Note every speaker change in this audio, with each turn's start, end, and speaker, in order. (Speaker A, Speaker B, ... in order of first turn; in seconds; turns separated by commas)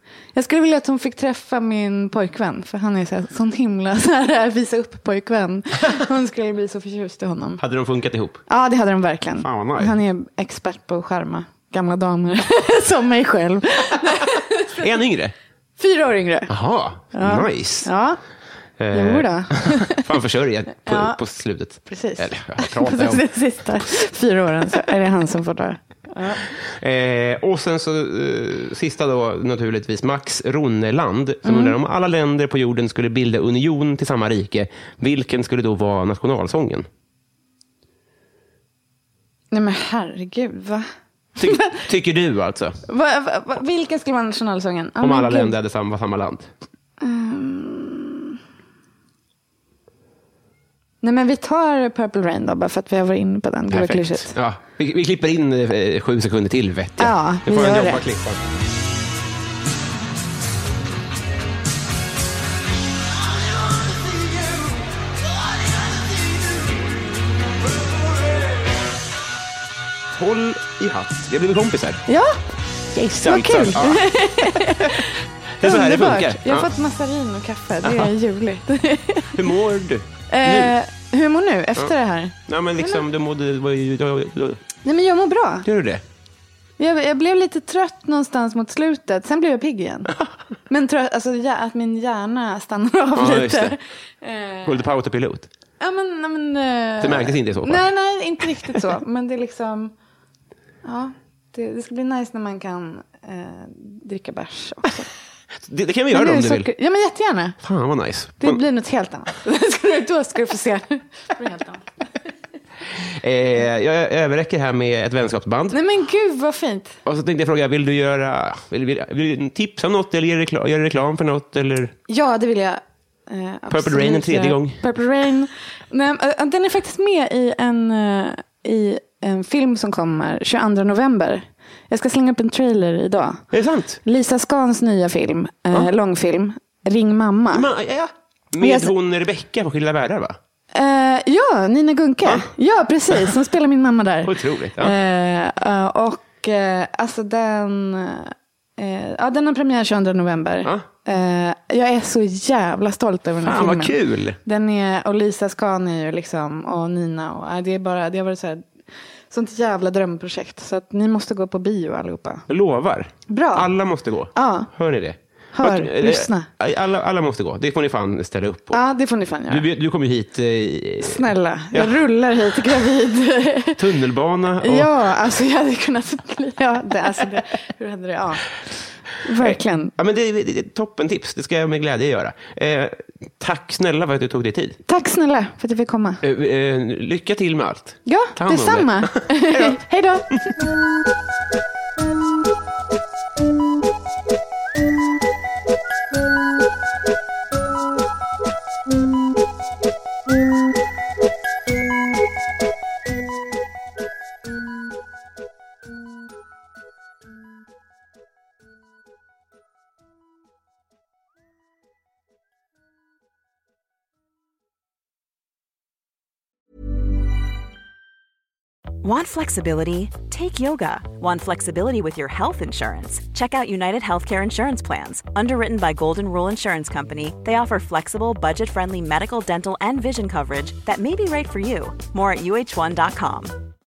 Speaker A: 0.3-7.6, Speaker B: 7.6-8.4, Speaker A: 8.5-14.8, Speaker B: 9.4-9.9, Speaker B: 14.7-15.3, Speaker A: 15.8-16.5, Speaker B: 16.5-17.9, Speaker A: 17.1-18.2, Speaker B: 18.8-23.3, Speaker A: 18.9-20.0, Speaker A: 20.9-21.2, Speaker A: 21.8-26.4, Speaker B: 26.6-36.9, Speaker A: 31.4-31.8, Speaker A: 39.5-40.9, Speaker B: 41.4-42.8, Speaker A: 41.4-41.8, Speaker A: 42.9-45.5, Speaker B: 45.0-46.5, Speaker A: 47.0-48.4, Speaker A: 51.0-54.3, Speaker B: 53.7-58.4, Speaker A: 57.0-58.0, Speaker B: 70.1-72.0, Speaker A: 72.1-72.4, Speaker B: 72.9-76.7, Speaker A: 73.2-79.4, Speaker B: 77.8-78.1, Speaker B: 79.3-80.7, Speaker A: 80.3-83.0, Speaker B: 82.5-84.6, Speaker A: 84.8-85.7, Speaker B: 85.6-86.0, Speaker A: 86.8-90.2, Speaker A: 90.7-94.8, Speaker B: 93.1-93.7, Speaker B: 94.6-95.5, Speaker A: 95.8-99.9, Speaker B: 97.0-97.9, Speaker A: 100.8-105.1, Speaker B: 105.6-106.7, Speaker A: 106.1-107.6, Speaker B: 107.6-108.6, Speaker A: 108.4-111.9, Speaker B: 112.9-115.8, Speaker A: 115.7-117.0, Speaker B: 117.0-121.9, Speaker A: 122.1-133.4, Speaker B: 123.7-124.8, Speaker B: 133.5-134.0, Speaker A: 134.0-137.7, Speaker B: 137.5-140.4, Speaker A: 138.6-138.9, Speaker A: 140.7-158.7, Speaker B: 143.1-143.3, Speaker B: 144.2-144.9, Speaker B: 153.4-154.4, Speaker A: 159.3-162.4, Speaker B: 162.5-168.8, Speaker A: 163.3-163.7, Speaker A: 164.3-164.7, Speaker A: 165.5-166.5, Speaker A: 168.7-169.7, Speaker B: 169.5-172.8, Speaker A: 171.0-173.8, Speaker B: 173.8-174.9, Speaker A: 174.6-178.6, Speaker A: 179.2-179.9, Speaker B: 179.4-184.8, Speaker A: 184.8-186.2, Speaker B: 186.2-189.8, Speaker A: 188.1-190.5, Speaker C: 219.0-233.6